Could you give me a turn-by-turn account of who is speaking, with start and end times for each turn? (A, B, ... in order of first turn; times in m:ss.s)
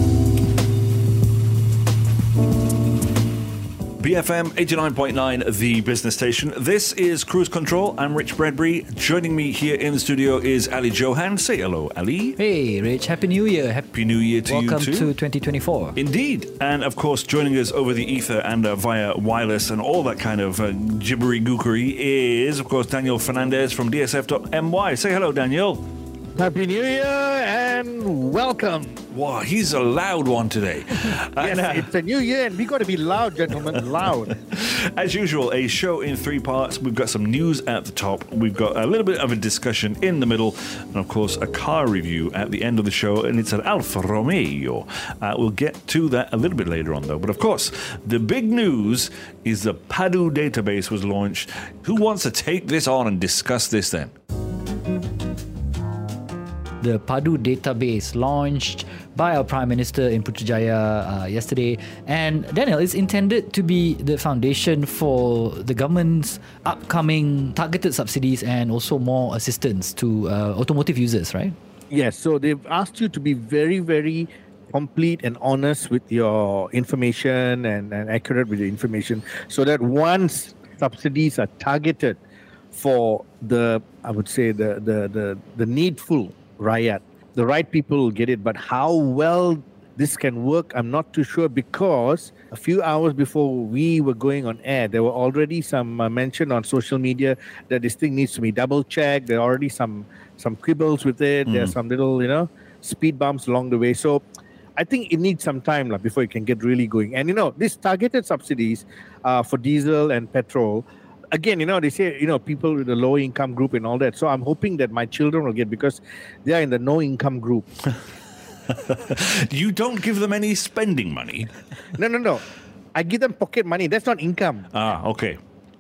0:04.0-0:12.4 A
0:12.4-0:13.9 B
0:13.9-0:15.1 A
0:14.5-0:16.0 B
0:16.0-0:25.8 A
0:26.4-0:29.0 C
0:29.1-0:31.9 A
0:31.4-0:34.4 C
0:34.3-0:54.1 A
0:56.8-1:11.6 B
1:11.9-1:22.2 C
1:22.7-1:44.2 C
1:41.5-1:41.7 A
1:44.8-1:57.7 C
1:58.7-2:01.5 A
2:02.0-2:04.7 C
2:04.7-2:05.4 A